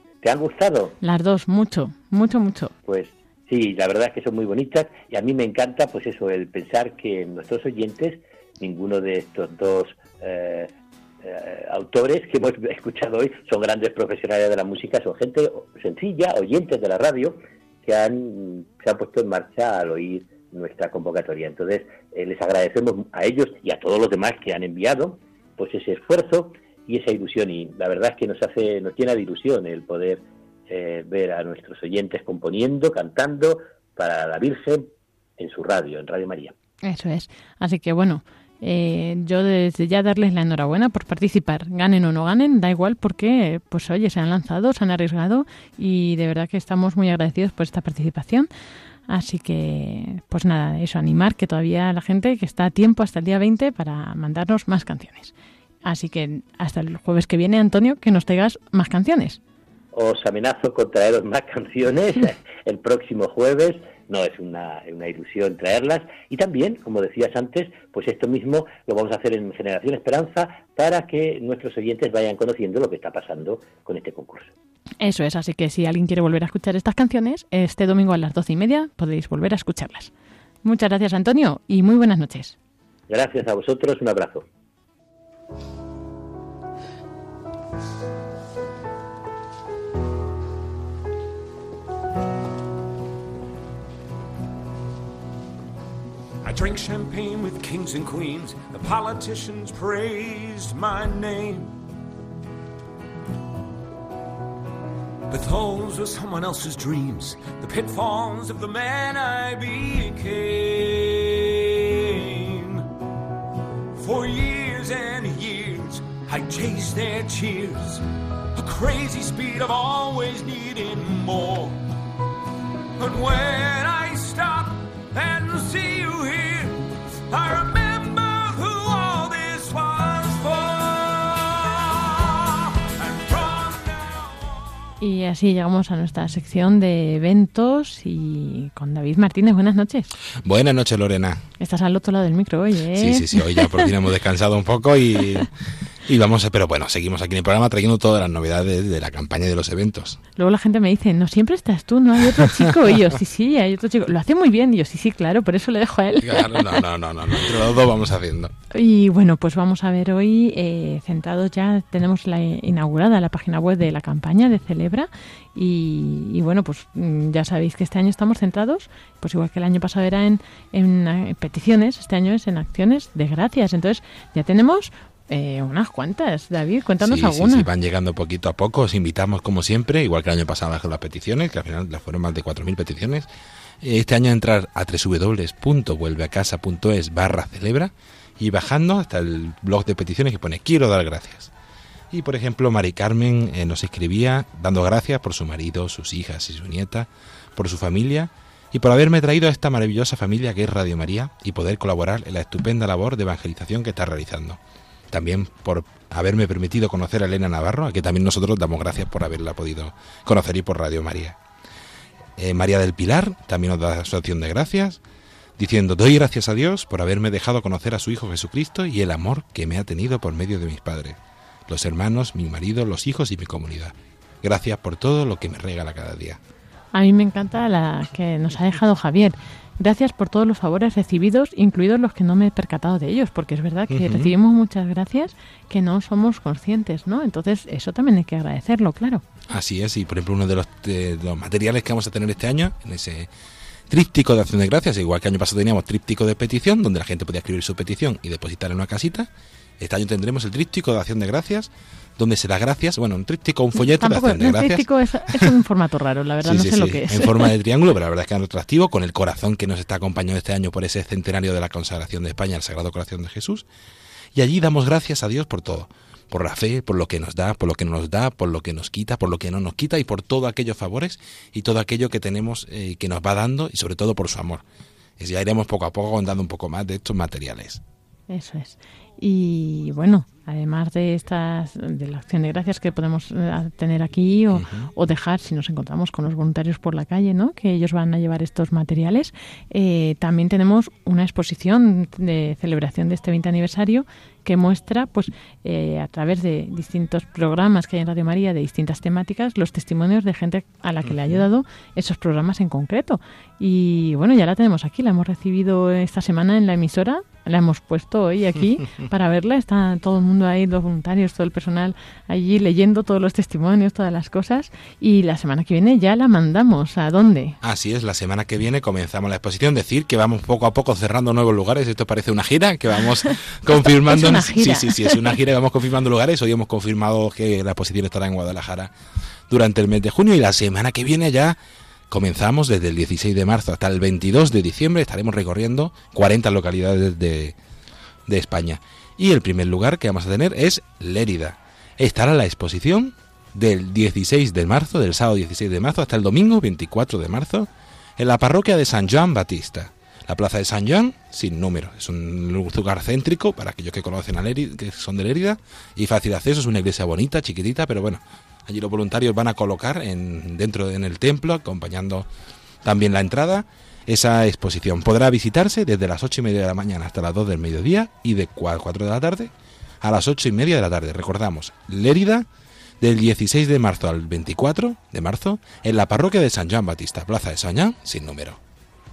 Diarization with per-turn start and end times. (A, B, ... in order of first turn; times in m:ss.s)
0:00.2-0:01.0 A
0:01.0-0:02.7 B
0:02.8-0:10.7 A
0:11.2-0:36.5 A
0:36.8-0:48.5 B
0:49.1-0:55.3 B
0:55.8-0:59.4 B
0:59.9-1:14.5 A
1:15.0-1:20.1 B
1:20.6-1:22.6 B
1:23.1-1:24.4 A
1:36.4-1:41.8 C
1:45.3-1:52.9 C
1:53.9-1:58.0 C
1:58.5-2:01.8 C
2:03.0-2:14.4 C
2:15.0-2:20.1 B
2:20.4-2:21.4 D
2:21.6-2:23.9 B
2:22.9-2:25.5 D
2:26.1-2:30.2 D
2:30.4-2:37.5 B
2:36.2-2:38.5 D
2:38.7-2:57.7 B
2:57.0-3:03.3 D
3:03.8-3:11.5 D
3:12.1-3:24.6 D
3:25.1-3:31.4 D
3:32.4-3:35.0 D
3:35.6-3:46.4 D
3:46.9-3:59.2 B
3:53.9-3:54.3 D
3:59.5-4:03.3 D
4:03.9-4:14.8 D
4:13.7-4:17.5 B
4:16.4-4:23.6 D
4:24.3-4:34.6 D
4:35.2-4:37.8 D
4:38.3-5:17.6 B
4:44.5-4:44.9 D
5:17.6-5:28.9 D
5:23.7-5:25.4 B
5:29.5-5:31.6 D
5:32.1-5:37.6 D
5:38.3-6:02.3 D
6:02.8-6:12.5 D
6:13.0-6:18.6 D